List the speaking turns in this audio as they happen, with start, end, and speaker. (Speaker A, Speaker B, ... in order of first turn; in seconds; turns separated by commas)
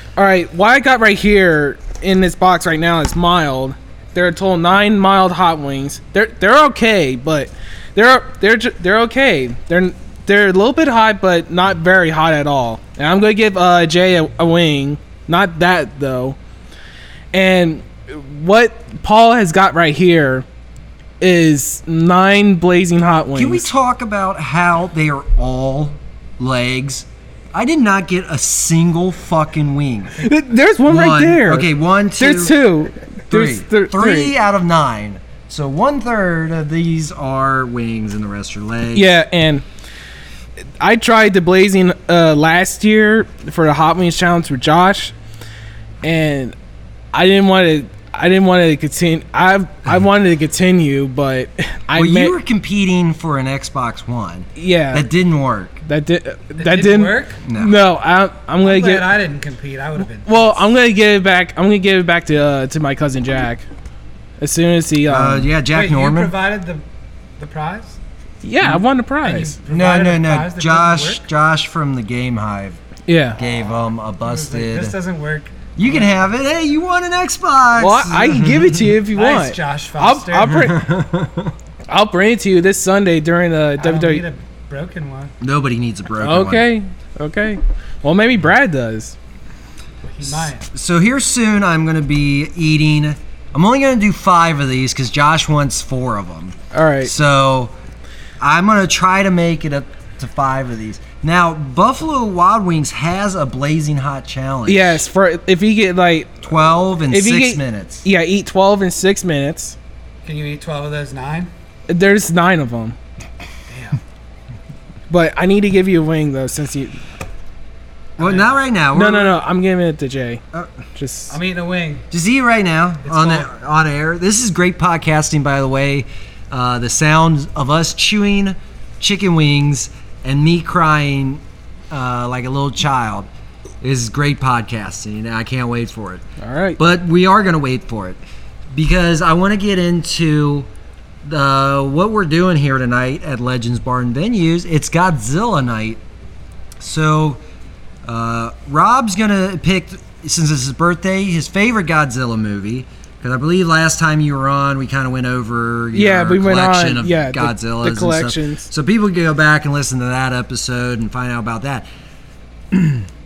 Speaker A: 0.2-16.4, Speaker A: 17.3-20.5, Speaker A: 21.2-23.7, Speaker B: 23.4-30.2, Speaker A: 30.2-34.3, Speaker B: 30.8-32.7, Speaker B: 33.3-39.2, Speaker A: 38.9-39.7, Speaker A: 40.8-45.1, Speaker A: 46.0-46.6, Speaker A: 47.1-52.4, Speaker B: 52.0-55.8, Speaker A: 54.6-55.1, Speaker A: 55.9-59.1, Speaker C: 56.6-57.4, Speaker B: 57.5-57.8, Speaker C: 58.6-60.6, Speaker A: 60.2-63.7, Speaker A: 64.4-65.5, Speaker B: 65.1-66.3, Speaker C: 65.7-66.8, Speaker C: 67.4-68.0, Speaker A: 68.4-69.6, Speaker C: 69.2-71.2, Speaker B: 69.7-72.8, Speaker A: 73.1-73.4, Speaker B: 73.4-75.0, Speaker C: 74.2-76.2, Speaker B: 75.8-78.9, Speaker A: 77.8-80.8, Speaker C: 79.0-80.8, Speaker B: 80.5-81.5, Speaker A: 81.9-84.2, Speaker C: 83.8-85.3, Speaker B: 85.4-86.7, Speaker A: 86.2-89.2, Speaker C: 90.0-90.6, Speaker B: 90.2-97.7, Speaker A: 96.7-97.1, Speaker B: 98.4-105.0, Speaker A: 104.7-106.5, Speaker B: 106.4-108.1, Speaker A: 107.1-109.8, Speaker C: 110.2-111.5, Speaker A: 111.9-113.0, Speaker C: 113.7-114.0, Speaker A: 115.1-117.0, Speaker C: 118.2-118.6, Speaker B: 118.2-119.4, Speaker A: 118.9-120.4, Speaker A: 121.0-121.4, Speaker C: 121.3-122.1, Speaker B: 122.1-133.3, Speaker C: 123.0-123.5, Speaker B: 133.8-136.2, Speaker A: 136.4-136.8, Speaker B: 136.8-138.2, Speaker B: 138.7-140.7, Speaker B: 141.2-146.0, Speaker B: 146.8-147.4, Speaker B: 148.1-161.9, Speaker A: 155.9-158.7, Speaker B: 162.7-163.1